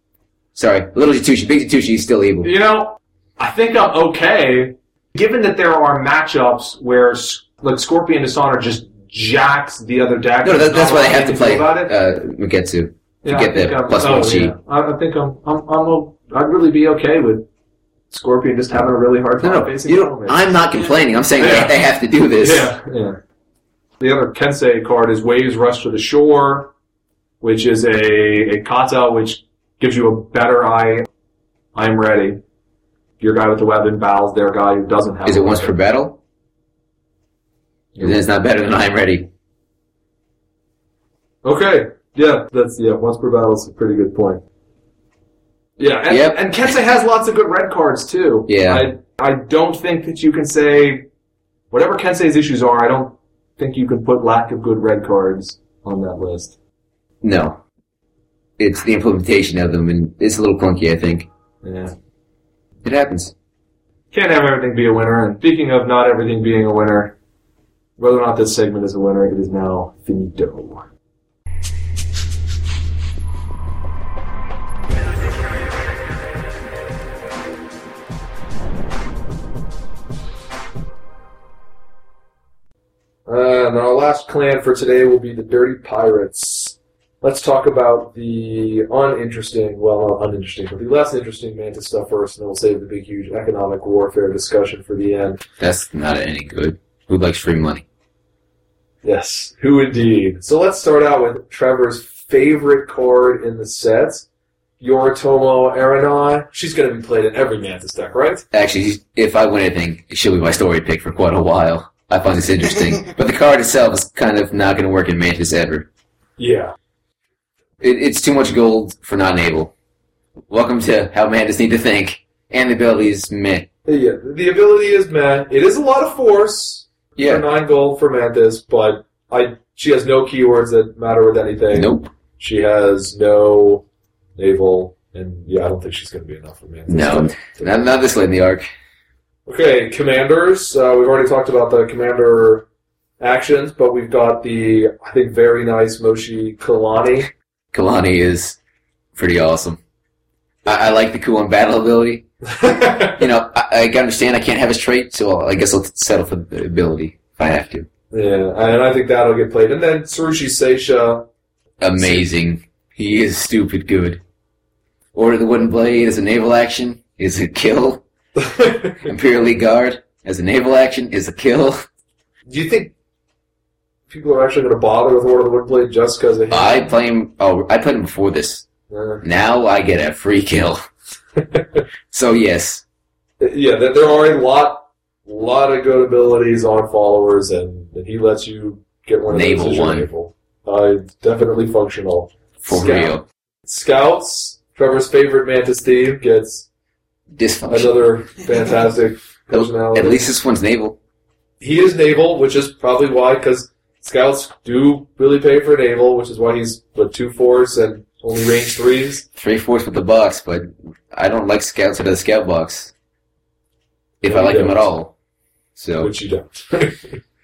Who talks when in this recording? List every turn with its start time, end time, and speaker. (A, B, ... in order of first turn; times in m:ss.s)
0:00.5-0:02.5 A
0:02.4-0:11.9 B
0:10.4-0:14.6 A
0:13.2-0:17.4 B
0:18.1-0:20.6 B
0:19.4-0:22.7 A
0:21.4-0:21.8 B
0:22.4-0:23.2 B
0:24.0-0:26.7 B
0:27.4-0:31.1 B
0:31.7-0:32.4 B
0:33.2-0:35.7 B
0:35.2-0:36.2 A
0:37.9-0:38.2 B
0:38.0-0:39.3 A
0:41.4-0:44.4 B
0:45.8-0:51.1 B
0:46.1-0:46.4 A
0:48.5-0:48.9 A
0:51.7-0:56.5 B
0:57.2-0:57.6 A
0:58.6-1:01.3 A
1:01.6-1:01.9 B
1:02.8-1:03.3 A
1:04.1-1:07.1 B
1:08.0-1:10.8 B
1:23.3-1:35.4 B
1:35.6-1:37.8 A
1:39.0-1:44.2 B
1:44.8-1:48.4 B
1:48.5-1:55.8 A
1:56.4-1:56.7 B
1:57.8-1:59.7 A
2:00.5-2:03.7 A
2:03.8-2:13.8 B
2:07.2-2:07.4 A
2:11.7-2:12.1 A
2:14.4-2:17.9 B
2:16.9-2:18.6 A
2:19.4-2:22.6 B
2:23.2-2:27.3 B
2:27.7-2:28.6 A
2:29.2-2:29.8 A
2:30.6-2:32.2 A
2:32.5-2:33.2 B
2:33.2-2:37.9 A
2:38.1-2:41.3 B
2:41.8-2:44.2 A
2:42.0-2:42.2 B
2:45.1-2:48.0 A
2:48.4-2:49.1 B
2:49.0-2:51.8 A
2:52.5-2:52.9 B
2:54.1-2:56.9 B
2:56.5-2:58.6 A
2:58.9-2:59.2 B
2:59.2-3:00.8 A
3:01.5-3:01.8 B
3:02.1-3:02.8 A
3:03.4-3:16.7 B
3:09.3-3:10.1 A
3:12.6-3:13.2 A
3:17.3-3:18.0 A
3:17.7-3:20.2 B
3:19.5-3:21.0 A
3:21.6-3:29.2 B
3:29.4-3:32.9 A
3:34.2-3:35.1 A
3:34.2-3:34.8 B
3:35.8-3:36.1 A
3:36.0-3:37.2 B